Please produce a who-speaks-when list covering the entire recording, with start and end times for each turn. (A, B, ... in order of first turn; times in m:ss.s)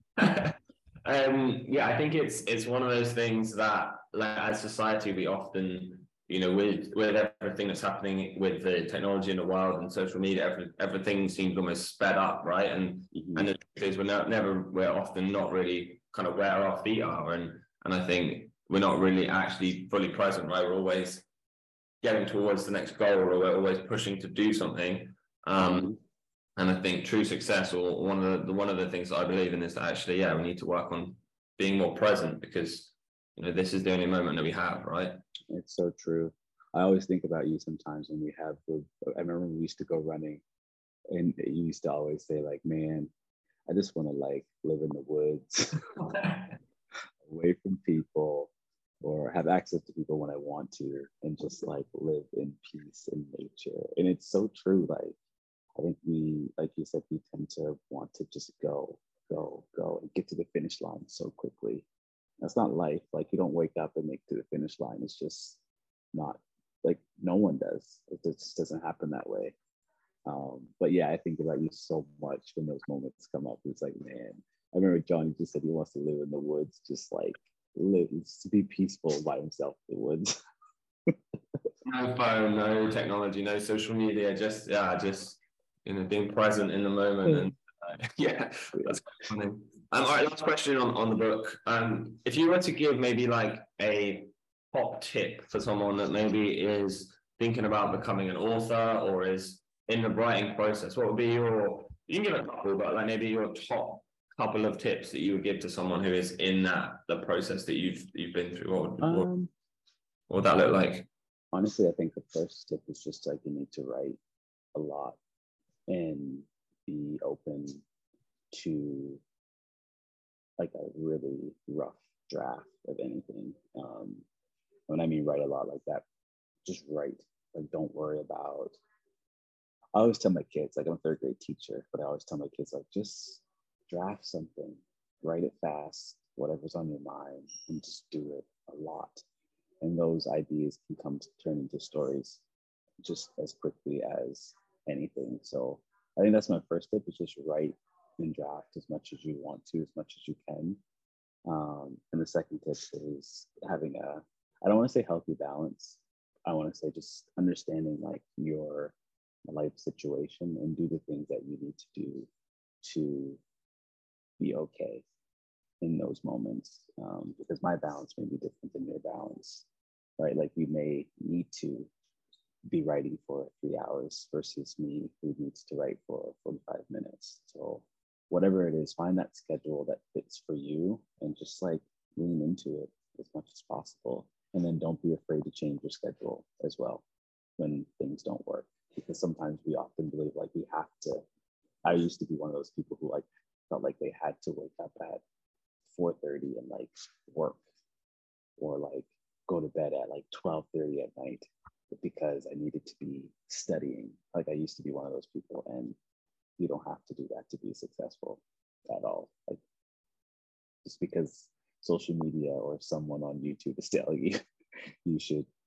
0:00.2-0:21.2 A
0:13.1-0:13.5 B
0:22.0-0:25.9 A
0:25.6-0:26.0 B
0:26.6-0:35.2 A
0:35.5-0:40.4 B
0:41.1-0:43.1 B
0:43.7-0:45.9 B
0:47.2-0:55.2 B
0:55.8-1:01.9 B
1:02.4-1:05.6 B
1:06.1-1:09.6 B
1:10.2-1:20.4 B
1:21.1-1:21.4 B
1:21.8-1:49.3 A
1:49.0-1:49.5 B
1:50.3-1:51.1 A
1:51.5-1:54.2 B
1:54.7-1:55.2 B
1:55.9-1:57.8 B
1:58.5-1:59.2 B
2:00.6-2:04.2 B
2:04.9-2:06.0 B
2:06.6-2:08.8 B
2:10.0-2:19.2 B
2:19.8-2:22.4 B
2:23.0-2:30.8 B
2:31.5-2:39.0 B
2:39.5-2:42.3 B
2:42.8-2:43.4 B
2:44.4-2:45.0 B
2:45.8-2:49.6 B
2:50.2-2:51.9 B
2:52.7-3:07.0 B
3:07.6-3:11.2 B
3:11.8-3:15.2 B
3:15.9-3:17.6 B
3:18.6-3:26.0 B
3:26.6-3:29.6 B
3:30.8-3:34.4 B
3:35.0-3:35.5 B